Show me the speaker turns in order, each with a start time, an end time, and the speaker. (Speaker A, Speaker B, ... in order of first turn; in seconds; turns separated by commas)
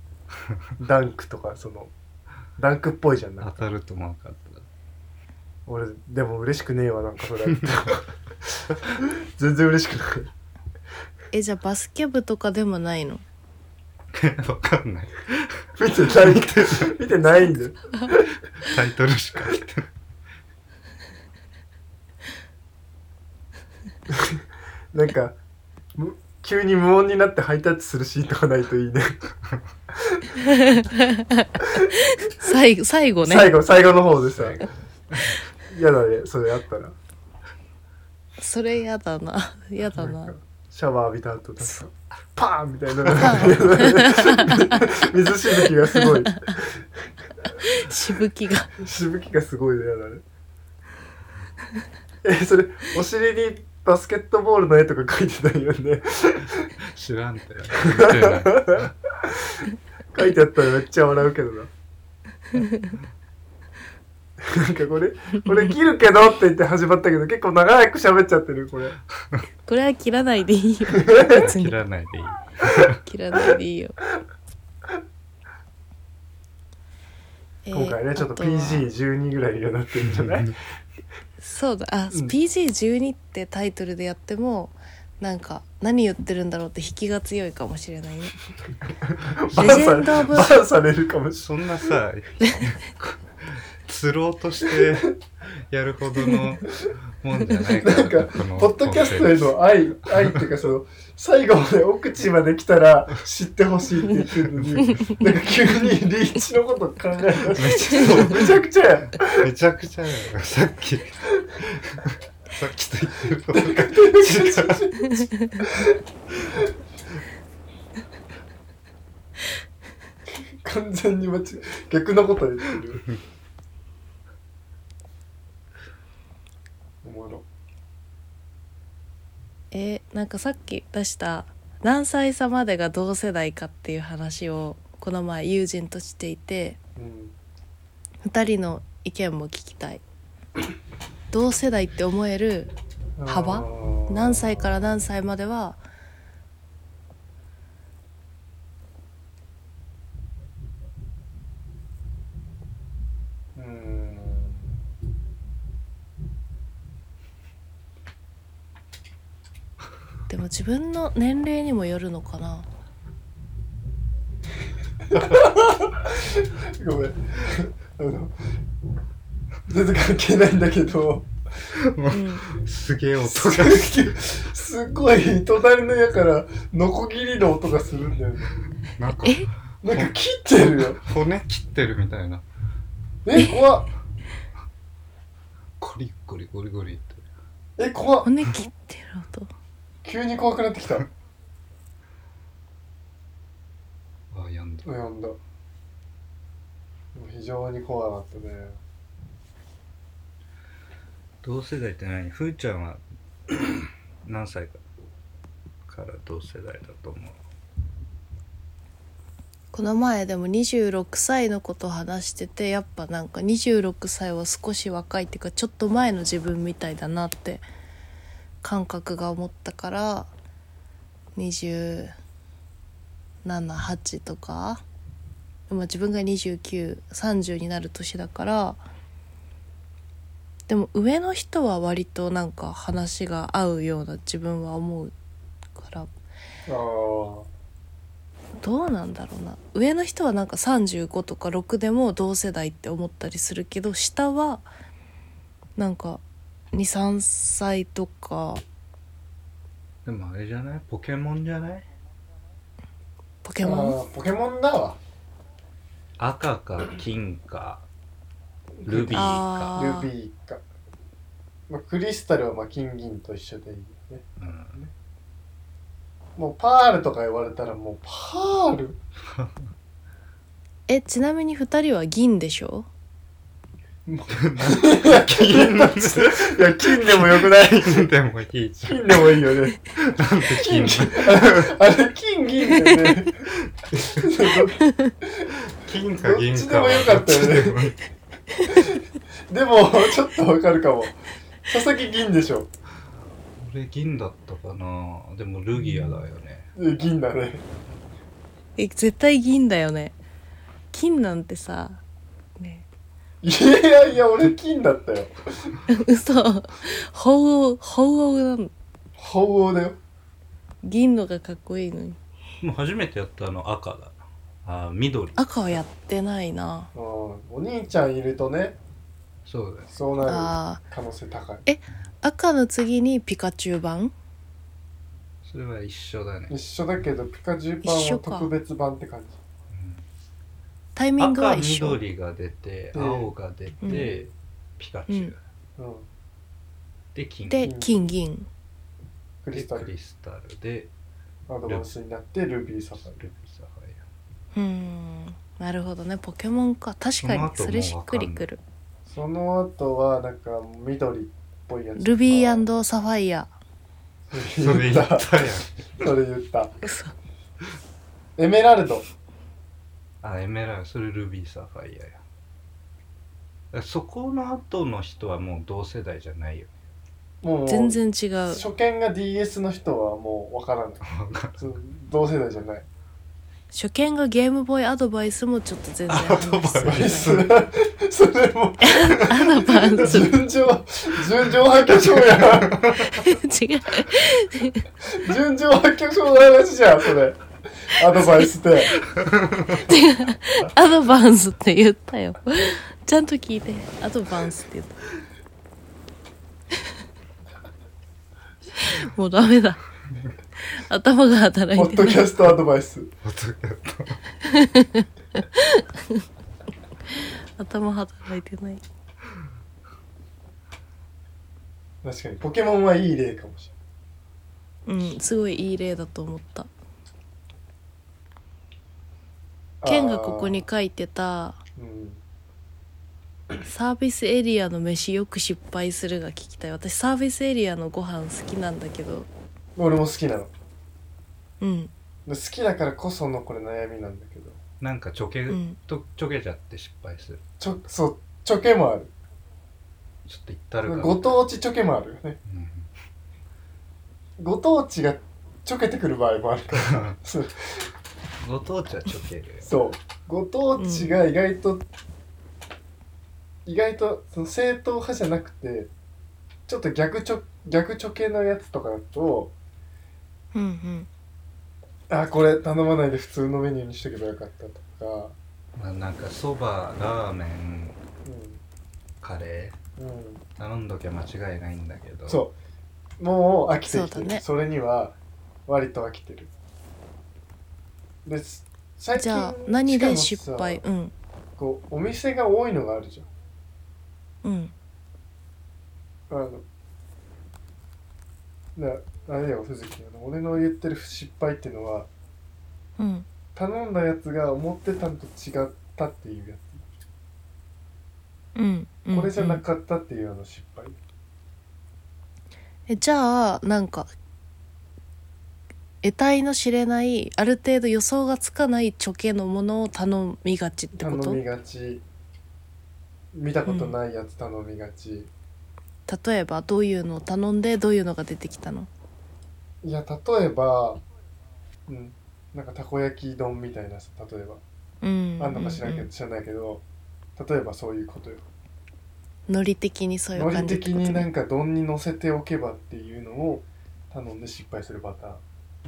Speaker A: 0.8-1.9, Speaker A: 2.6-3.6, Speaker B: 3.4-4.7, Speaker A: 5.7-10.3, Speaker C: 11.3-13.2, Speaker B: 14.1-16.9, Speaker A: 15.8-18.3, Speaker B: 18.6-19.9, Speaker A: 24.1-25.4, Speaker A: 25.9-29.2, Speaker A: 30.0-30.3, Speaker C: 30.4-33.5, Speaker A: 33.2-34.6, Speaker B: 34.3-35.4, Speaker A: 35.7-37.0, Speaker C: 38.4-40.3, Speaker A: 39.9-47.1, Speaker C: 43.1-44.9, Speaker C: 46.0-46.5, Speaker C: 47.6-48.7, Speaker A: 48.8-50.2, Speaker A: 52.2-56.7, Speaker B: 56.9-58.9, Speaker A: 57.8-61.7, Speaker C: 62.6-63.0, Speaker A: 64.4-69.0, Speaker C: 69.7-71.8, Speaker A: 71.0-71.4, Speaker B: 71.3-73.0, Speaker C: 73.0-74.0, Speaker C: 77.6-78.9, Speaker A: 77.7-80.5, Speaker B: 80.1-80.5, Speaker C: 81.4-88.4, Speaker A: 89.1-92.0, Speaker B: 89.5-90.0, Speaker C: 89.6-90.5, Speaker B: 91.4-95.2, Speaker B: 95.7-99.5, Speaker A: 97.7-109.5, Speaker B: 100.1-100.4, Speaker B: 104.6-105.0, Speaker B: 107.5-108.6, Speaker B: 109.3-115.1, Speaker A: 113.5-116.0, Speaker C: 115.3-115.5, Speaker A: 120.3-123.0, Speaker A: 127.0-127.5, Speaker C: 129.7-136.8, Speaker A: 137.0-137.4, Speaker C: 138.2-140.0, Speaker C: 141.3-142.7, Speaker A: 143.2-144.9, Speaker C: 143.3-145.8, Speaker A: 153.6-154.8, Speaker C: 160.3-162.7, Speaker A: 165.1-168.4, Speaker A: 169.7-171.3, Speaker B: 171.8-174.1, Speaker C: 172.1-172.5, Speaker A: 173.3-178.6, Speaker B: 179.0-180.2, Speaker C: 179.2-179.5, Speaker A: 179.8-181.0, Speaker B: 180.8-182.4, Speaker A: 183.2-183.9, Speaker B: 185.8-187.2, Speaker A: 187.8-188.3, Speaker C: 188.2-189.5, Speaker A: 190.0-191.1, Speaker B: 194.3-194.9, Speaker A: 194.8-195.4, Speaker A: 197.1-198.8, Speaker B: 201.4-204.8, Speaker B: 205.9-207.4, Speaker C: 209.7-217.6, Speaker C: 218.6-220.3, Speaker C: 221.4-222.1, Speaker C: 223.4-224.8, Speaker C: 225.7-228.8, Speaker C: 230.7-235.1, Speaker C: 235.8-236.1, Speaker A: 236.7-237.5, Speaker C: 238.6-244.7, Speaker C: 245.8-248.6, Speaker B: 250.1-251.9, Speaker C: 253.4-254.0, Speaker A: 253.6-255.0, Speaker B: 256.2-257.9, Speaker A: 258.8-260.6, Speaker B: 258.9-259.8, Speaker C: 259.1-260.1, Speaker A: 261.7-264.9, Speaker B: 264.4-264.8, Speaker A: 266.4-269.0, Speaker B: 269.3-269.6, Speaker C: 270.9-272.9, Speaker A: 274.1-278.1, Speaker B: 274.3-279.4, Speaker A: 278.9-279.8, Speaker B: 280.0-281.7, Speaker A: 280.5-283.5, Speaker B: 283.9-284.2, Speaker A: 284.1-285.5, Speaker C: 284.8-285.1, Speaker B: 285.7-288.0, Speaker A: 286.2-287.9, Speaker A: 288.7-292.7, Speaker B: 293.6-296.7, Speaker A: 296.8-297.6, Speaker C: 298.8-300.2, Speaker C: 300.9-302.0, Speaker C: 302.6-302.9, Speaker A: 303.4-305.7, Speaker C: 305.9-308.7, Speaker A: 309.2-310.0, Speaker C: 310.8-312.2, Speaker B: 312.6-315.8, Speaker C: 315.4-316.9, Speaker A: 316.9-318.8, Speaker B: 319.5-319.9, Speaker A: 319.9-321.7, Speaker C: 320.2-320.8, Speaker C: 321.7-324.1, Speaker B: 325.4-326.6, Speaker A: 326.5-329.4, Speaker C: 327.8-328.5, Speaker B: 329.7-330.1, Speaker C: 331.0-332.0, Speaker B: 331.2-335.4, Speaker A: 332.9-333.3, Speaker C: 333.8-334.1, Speaker A: 333.9-334.2, Speaker A: 335.8-336.1, Speaker B: 337.1-337.7, Speaker C: 337.5-338.5, Speaker A: 337.6-338.0, Speaker A: 339.4-339.9, Speaker B: 339.5-340.9, Speaker A: 341.5-343.2, Speaker B: 343.2-344.0, Speaker C: 344.5-348.6, Speaker B: 347.2-348.5, Speaker A: 349.1-352.7, Speaker C: 352.0-353.5, Speaker A: 354.3-355.3, Speaker B: 354.5-356.1, Speaker A: 356.0-356.8, Speaker C: 356.8-357.1, Speaker A: 358.4-359.1, Speaker B: 360.2-362.2, Speaker B: 363.7-366.7, Speaker A: 367.4-372.9, Speaker C: 367.7-368.6, Speaker B: 371.1-371.6, Speaker C: 373.7-377.3, Speaker B: 376.1-377.5, Speaker A: 376.8-383.0, Speaker C: 378.8-380.4, Speaker B: 381.9-383.2, Speaker C: 383.1-384.9, Speaker A: 385.1-389.0, Speaker B: 389.2-389.8, Speaker C: 389.8-395.0, Speaker C: 398.8-399.8, Speaker C: 400.7-402.4, Speaker A: 401.8-403.1, Speaker B: 403.2-404.2, Speaker C: 404.4-406.2, Speaker C: 407.1-408.8, Speaker A: 412.0-413.7, Speaker C: 414.9-416.7, Speaker A: 419.8-420.6, Speaker C: 419.9-421.6, Speaker A: 421.8-422.2, Speaker C: 423.6-429.3, Speaker A: 429.8-430.5, Speaker C: 431.6-431.9, Speaker A: 432.3-434.6, Speaker B: 434.8-437.4, Speaker C: 435.5-435.8, Speaker A: 437.6-439.1, Speaker B: 440.3-441.4, Speaker A: 440.9-442.4, Speaker B: 442.5-442.9, Speaker A: 444.4-447.9, Speaker B: 446.8-447.2, Speaker B: 448.4-449.7, Speaker A: 449.6-451.9, Speaker C: 450.8-451.2, Speaker A: 453.7-455.9, Speaker A: 456.7-459.5, Speaker C: 460.5-461.1, Speaker A: 462.1-465.4, Speaker B: 465.8-468.0, Speaker A: 468.2-468.6, Speaker B: 469.2-469.8, Speaker A: 470.0-470.4, Speaker B: 470.6-472.4, Speaker A: 472.3-472.6, Speaker A: 473.2-475.2, Speaker C: 473.9-474.4, Speaker A: 475.7-476.5, Speaker A: 478.2-480.8, Speaker C: 479.1-481.1, Speaker A: 481.6-483.3, Speaker C: 484.4-484.7, Speaker A: 486.3-486.6, Speaker A: 488.8-492.1, Speaker C: 493.0-493.3, Speaker A: 493.6-496.9, Speaker C: 498.6-499.6, Speaker A: 499.1-501.0, Speaker C: 502.9-504.1, Speaker C: 506.0-511.4, Speaker A: 510.9-512.0, Speaker A: 513.3-515.3, Speaker C: 513.7-514.0, Speaker C: 516.1-518.9, Speaker A: 519.8-521.0, Speaker A: 521.9-524.6, Speaker C: 525.0-526.1, Speaker A: 525.4-526.8, Speaker A: 527.4-528.5, Speaker C: 529.5-531.3, Speaker A: 530.4-535.4